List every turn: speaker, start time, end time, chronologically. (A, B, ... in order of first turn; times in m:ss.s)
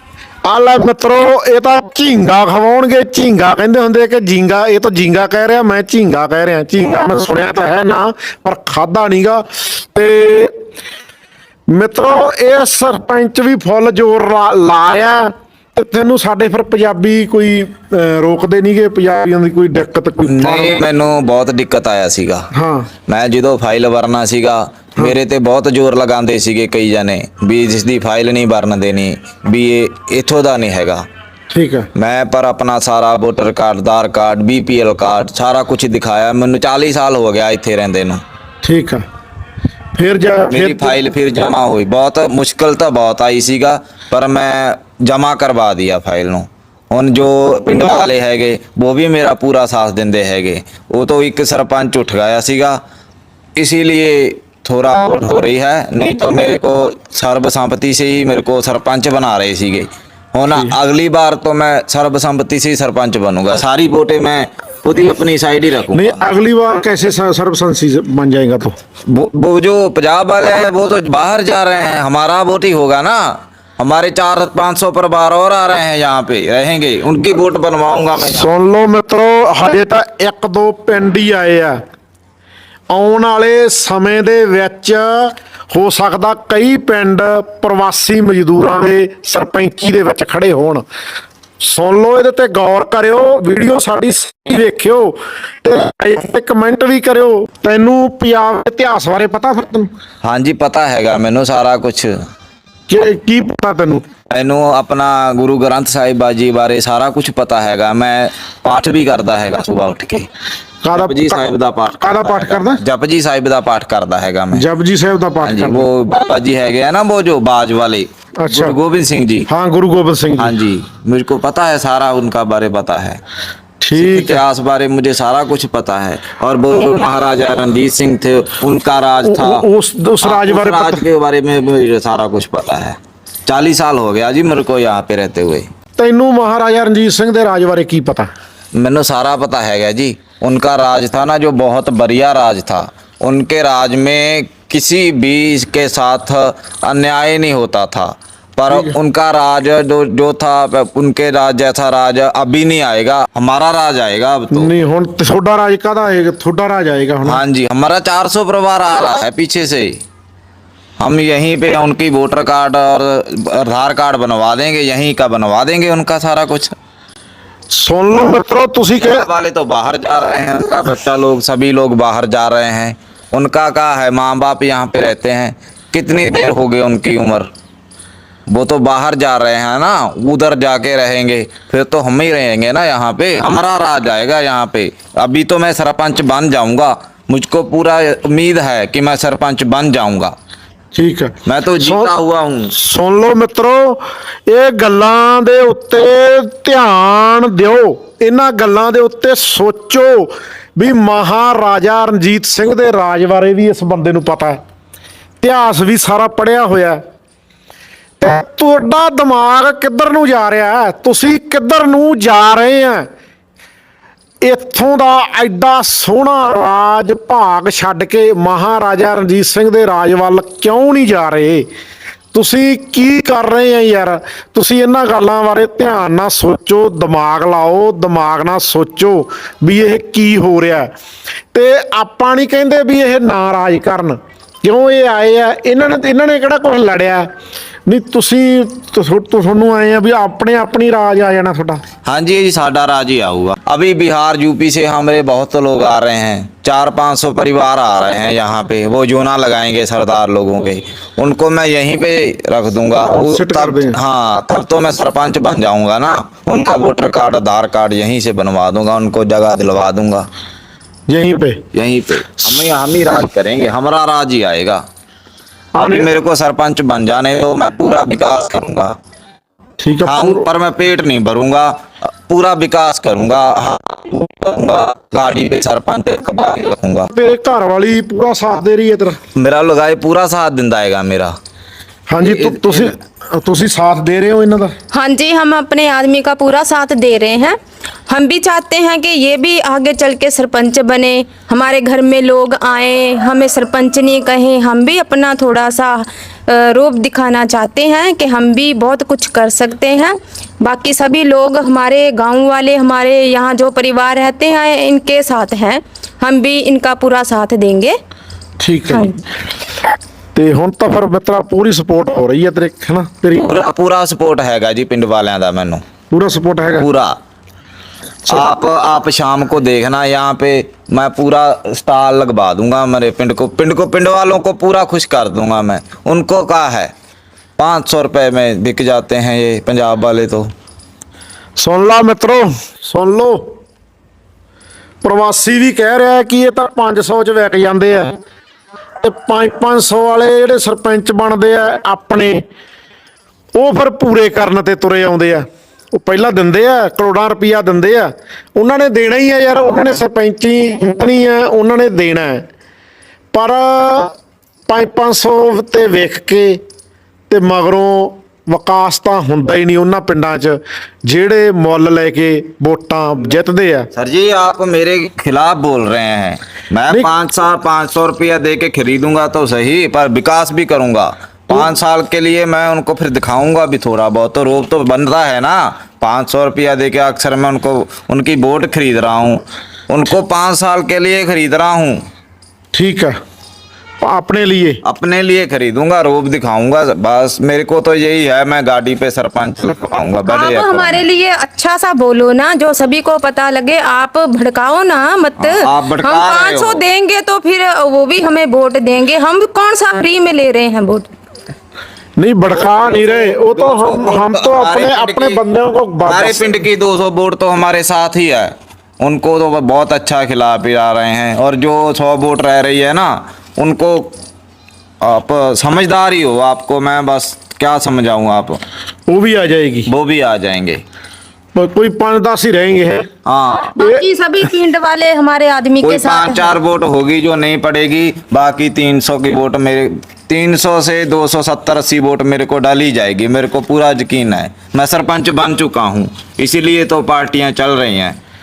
0:00.4-0:10.6 A
0:11.7-0:20.8 A
0:20.3-0:22.5 B
0:22.5-0:22.9 A
0:23.1-0:31.1 B
0:31.5-0:31.9 A
0:32.0-0:38.2 B
0:38.6-0:39.1 A
0:39.9-0:41.0 A
0:40.5-0:52.8 B
0:53.6-1:06.3 B
1:05.9-1:08.8 A
1:09.1-1:18.5 B
1:18.2-1:21.8 A
1:22.9-1:30.8 A
1:31.6-1:39.9 A
1:40.2-1:42.3 B
1:42.9-1:44.1 A
1:44.3-1:50.3 B
1:50.8-1:51.4 A
1:50.9-1:54.7 B
1:52.0-1:52.8 A
1:54.5-1:55.9 A
1:55.4-1:59.5 B
1:58.4-1:58.8 A
1:59.5-2:00.6 A
2:00.4-2:03.2 B
2:03.8-2:04.4 A
2:03.9-2:09.6 B
2:09.2-2:11.0 A
2:10.2-2:15.7 B
2:16.0-2:18.3 A
2:18.7-2:34.7 B
2:28.7-2:29.0 A
2:34.5-2:37.4 A
2:37.2-2:40.0 B
2:41.0-2:46.7 B
2:47.7-2:49.2 A
2:49.0-2:57.5 B
2:58.5-3:10.4 B
3:10.9-3:12.1 A
3:11.4-3:12.7 B
3:12.7-3:24.6 A
3:25.4-3:27.0 A
3:28.2-3:33.1 A
3:34.4-3:41.7 A
3:42.3-3:50.9 A
3:51.5-3:57.3 A
3:57.9-4:01.8 A
4:02.1-4:20.3 B
4:13.1-4:14.0 A
4:21.1-4:21.6 A
4:21.7-4:24.8 B
4:25.8-4:26.1 A
4:25.8-4:28.9 B
4:29.8-4:30.5 A
4:30.0-4:37.1 B
4:37.1-4:39.2 A
4:39.3-4:41.4 B
4:42.1-4:44.8 A
4:42.2-4:43.0 B
4:44.9-4:47.6 C
4:48.1-5:08.0 C
5:08.6-5:09.2 A
5:10.4-5:13.5 A
5:13.4-5:15.8 B
5:16.1-5:16.9 A
5:16.8-5:17.2 B
5:18.3-5:26.9 B
5:27.6-5:30.5 B
5:31.6-5:33.6 A
5:35.0-5:38.2 A
5:39.0-5:42.4 A
5:43.6-5:52.5 A
5:53.3-5:54.1 A
5:54.7-5:56.6 A
5:57.3-6:03.9 A
6:03.9-6:22.0 B
6:22.7-6:23.2 A
6:24.0-6:24.8 A
6:24.8-6:31.0 B
6:30.3-6:41.1 C
6:35.4-6:36.8 B
6:42.2-6:46.6 A
6:42.5-6:45.4 B
6:46.0-6:54.2 B
6:55.0-6:58.6 B
6:59.1-6:59.9 A
6:59.9-7:00.8 B
7:01.6-7:03.1 A
7:03.3-7:03.8 B
7:03.8-7:06.6 C
7:03.8-7:04.0 A
7:05.8-7:18.2 B